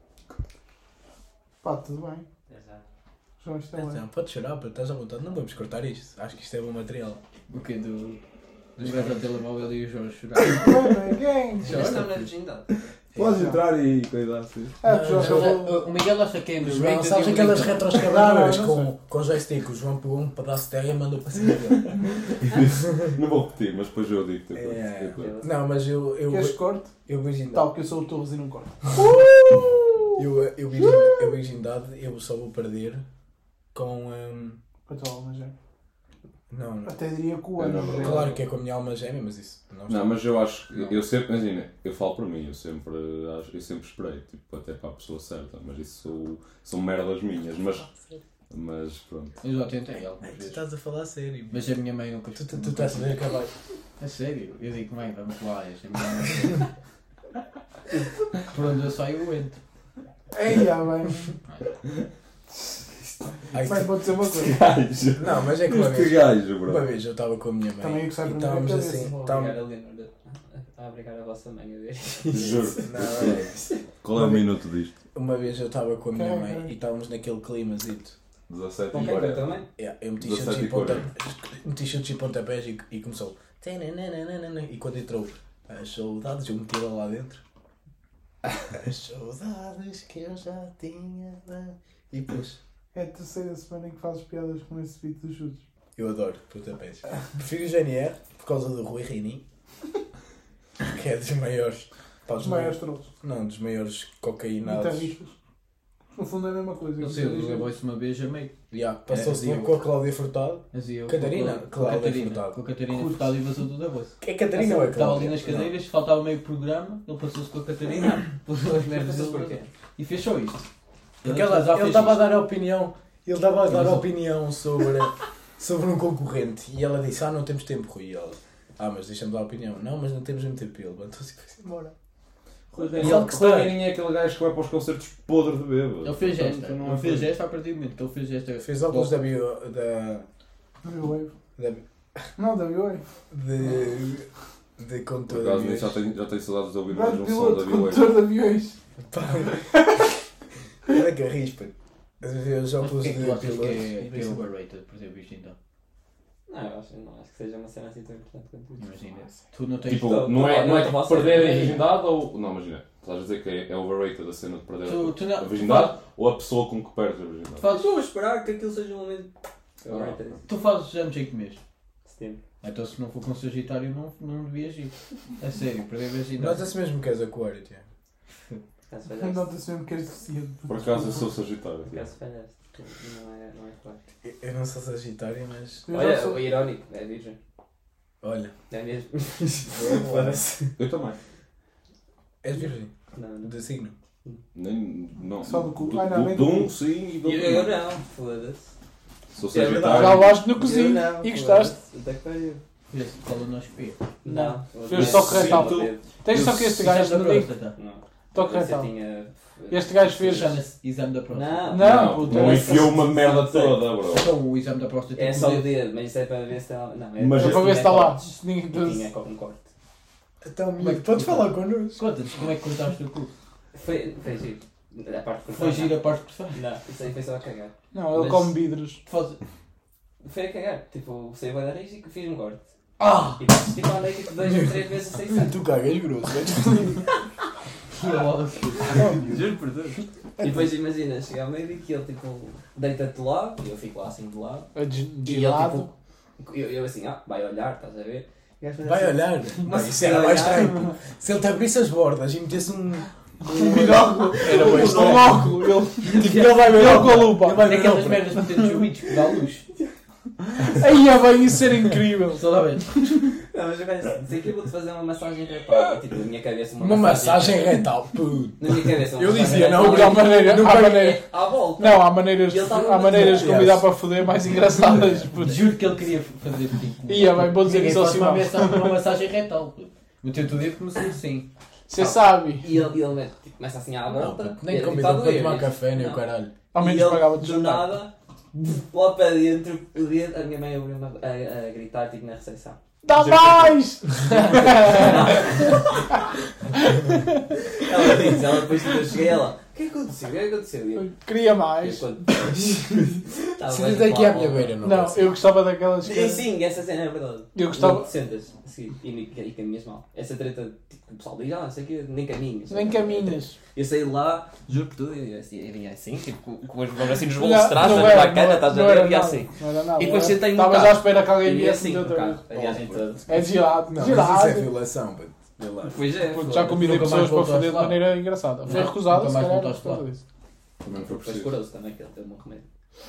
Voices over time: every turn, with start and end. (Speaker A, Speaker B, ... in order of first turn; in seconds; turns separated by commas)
Speaker A: 1.6-2.3, Speaker B: 2.5-2.8, Speaker A: 3.4-4.0, Speaker C: 3.7-7.2, Speaker D: 7.5-8.2, Speaker D: 8.8-10.8, Speaker A: 10.5-12.0, Speaker B: 11.6-12.7, Speaker D: 11.7-12.1, Speaker E: 13.2-14.8, Speaker A: 13.2-13.7, Speaker A: 14.8-15.8, Speaker C: 14.8-15.8, Speaker D: 15.1-18.0, Speaker C: 16.6-22.0, Speaker A: 17.9-18.9, Speaker E: 22.3-25.4, Speaker C: 22.9-23.2, Speaker C: 24.6-27.7, Speaker B: 25.2-25.5, Speaker A: 26.3-26.9, Speaker A: 27.5-29.1, Speaker C: 30.2-33.0, Speaker C: 33.7-34.6, Speaker A: 34.9-35.5, Speaker C: 36.5-37.0, Speaker A: 36.9-38.4, Speaker E: 37.6-38.4, Speaker C: 37.9-40.2, Speaker E: 39.9-47.9, Speaker E: 48.5-49.4, Speaker D: 49.4-50.6, Speaker C: 50.2-51.8, Speaker D: 51.5-53.2, Speaker C: 52.4-53.5, Speaker D: 54.0-56.7, Speaker D: 58.5-59.6, Speaker A: 60.3-61.4, Speaker C: 63.5-64.0, Speaker A: 63.6-64.7, Speaker E: 64.1-66.8, Speaker C: 65.2-69.6, Speaker A: 67.8-69.1, Speaker B: 69.0-73.8, Speaker E: 72.3-73.5, Speaker C: 72.8-73.6, Speaker E: 74.0-74.9, Speaker C: 74.1-74.4, Speaker C: 75.1-78.2, Speaker A: 76.1-76.7, Speaker E: 78.5-79.5, Speaker B: 78.9-79.7, Speaker C: 79.8-87.4, Speaker E: 80.2-81.1, Speaker C: 88.7-92.6, Speaker A: 92.9-95.6, Speaker C: 96.0-99.4, Speaker C: 100.8-105.1, Speaker A: 102.4-103.1, Speaker A: 104.6-105.3, Speaker A: 106.2-107.7, Speaker D: 107.0-108.5, Speaker C: 108.7-112.6, Speaker D: 109.1-109.8, Speaker D: 110.7-120.7, Speaker A: 112.9-113.2, Speaker C: 114.2-115.7, Speaker B: 118.0-119.7, Speaker D: 121.2-122.3, Speaker C: 121.2-131.9, Speaker D: 123.7-124.1, Speaker D: 132.8-133.2, Speaker E: 132.8-137.3, Speaker C: 133.0-133.8, Speaker D: 136.0-139.2, Speaker C: 138.6-140.3, Speaker A: 140.8-141.3, Speaker C: 141.6-142.2, Speaker A: 142.4-143.0, Speaker C: 143.3-146.0, Speaker E: 145.3-148.2, Speaker A: 146.9-148.8, Speaker C: 149.1-149.9, Speaker C: 150.8-154.5, Speaker D: 152.8-155.6, Speaker B: 156.5-158.7, Speaker D: 158.8-160.2, Speaker E: 159.8-167.7, Speaker B: 159.9-161.8, Speaker D: 161.3-161.8, Speaker D: 164.8-166.0, Speaker D: 167.6-167.9, Speaker B: 167.7-169.3, Speaker B: 169.8-170.4, Speaker E: 169.9-170.2, Speaker D: 170.5-171.6, Speaker B: 172.1-172.4, Speaker D: 172.6-176.7, Speaker C: 176.4-177.8, Speaker B: 178.9-179.5, Speaker A: 179.2-181.3, Speaker E: 180.7-182.1, Speaker B: 181.9-184.0, Speaker C: 184.2-185.9, Speaker A: 185.9-186.4, Speaker B: 185.9-187.4, Speaker C: 188.2-188.5, Speaker B: 188.7-190.7, Speaker C: 189.7-190.5, Speaker E: 190.8-191.2, Speaker C: 192.4-193.9, Speaker B: 193.2-193.6, Speaker E: 194.6-197.8, Speaker A: 195.4-196.8, Speaker B: 197.2-198.7, Speaker E: 199.3-200.4, Speaker B: 199.5-202.6, Speaker A: 199.9-201.7, Speaker D: 202.9-204.0, Speaker B: 204.2-206.0, Speaker A: 204.3-207.5, Speaker E: 204.9-206.6, Speaker D: 206.3-207.7, Speaker B: 207.8-210.1, Speaker A: 208.3-208.9, Speaker A: 209.7-210.6, Speaker D: 210.1-211.8, Speaker B: 211.3-213.8, Speaker A: 211.7-213.0, Speaker E: 211.8-214.3, Speaker D: 214.1-215.7, Speaker B: 215.1-219.7, Speaker E: 217.2-218.0, Speaker A: 217.4-219.1, Speaker C: 220.4-222.0, Speaker D: 220.8-223.3, Speaker B: 223.8-226.0, Speaker D: 225.5-226.6, Speaker B: 226.5-228.6, Speaker A: 227.9-229.0, Speaker D: 229.1-229.4, Speaker B: 230.2-232.7, Speaker D: 233.0-233.4, Speaker B: 233.4-235.6, Speaker C: 234.4-237.1, Speaker D: 238.0-239.2, Speaker C: 238.9-239.4, Speaker B: 238.9-244.7, Speaker C: 240.4-240.7, Speaker A: 244.8-245.9, Speaker B: 245.2-250.9, Speaker C: 248.8-258.5, Speaker A: 253.4-257.7, Speaker B: 254.4-255.2, Speaker D: 256.0-259.7, Speaker A: 260.6-263.2, Speaker D: 262.3-262.9, Speaker B: 263.5-267.9, Speaker C: 266.8-271.2, Speaker B: 268.6-273.6, Speaker A: 269.6-271.2, Speaker A: 271.8-275.7, Speaker C: 273.1-273.9, Speaker D: 275.4-281.5, Speaker A: 277.1-279.0, Speaker A: 281.9-282.7, Speaker B: 282.0-286.2, Speaker C: 284.1-286.5, Speaker A: 286.7-288.0, Speaker B: 286.8-296.2, Speaker A: 293.0-295.8, Speaker A: 296.8-297.4, Speaker B: 297.7-302.8, Speaker A: 301.0-303.0, Speaker B: 303.6-304.8, Speaker C: 303.6-305.4, Speaker A: 304.8-306.5, Speaker B: 306.0-323.2, Speaker A: 307.6-308.1, Speaker A: 312.7-313.6, Speaker A: 317.4-322.4, Speaker A: 323.3-324.7, Speaker C: 323.9-325.7, Speaker B: 325.6-326.9, Speaker A: 326.2-330.2, Speaker D: 326.7-330.0, Speaker E: 330.8-331.6, Speaker B: 330.9-332.6